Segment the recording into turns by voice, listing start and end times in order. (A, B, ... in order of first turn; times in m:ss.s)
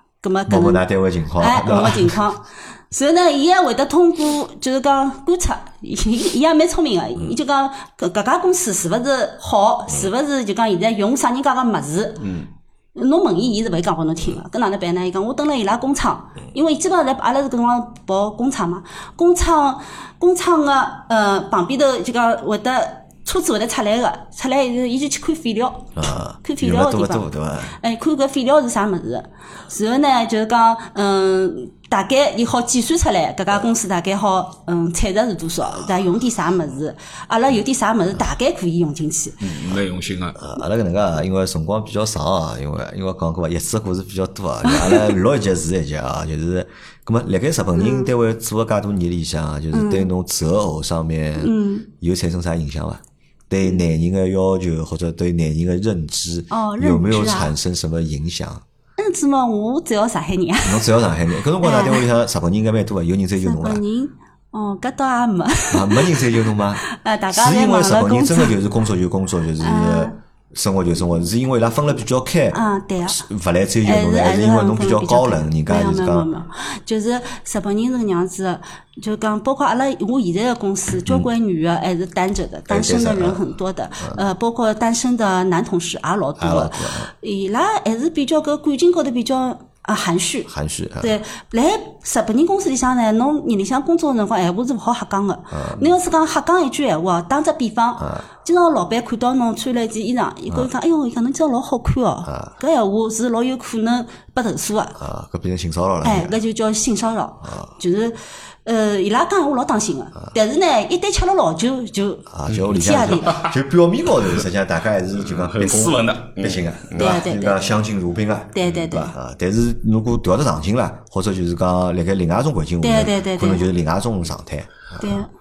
0:00.2-0:00.8 A
0:00.5-0:02.2 B
0:01.4-0:12.3 A
0:13.0-0:39.4 A
0:26.0-0:27.8 B
0:39.4-0:40.4 C
0:40.4-0:58.6 B
0:44.7-0:45.1 A
0:47.8-0:48.1 A
0:49.7-0:50.1 A
0:51.4-0:51.9 A
0:56.5-0:57.5 A
0:59.0-1:00.9 A
1:00.6-1:03.8 B
1:01.6-1:02.1 A
1:03.4-1:08.6 A
1:05.7-1:16.3 B
1:09.6-1:10.2 A
1:12.5-1:13.3 A
1:13.8-1:45.0 A
1:22.7-1:23.4 B
1:26.4-1:27.1 B
1:30.5-1:31.2 B
1:35.5-1:35.9 B
1:42.3-1:42.5 B
1:45.0-1:46.4 B
1:46.0-1:53.5 A
1:47.4-1:47.7 B
1:52.3-2:05.2 B
1:55.2-1:57.2 C
1:57.0-1:57.6 A
1:58.5-1:59.2 A
2:02.8-2:03.7 A
2:05.0-2:05.3 A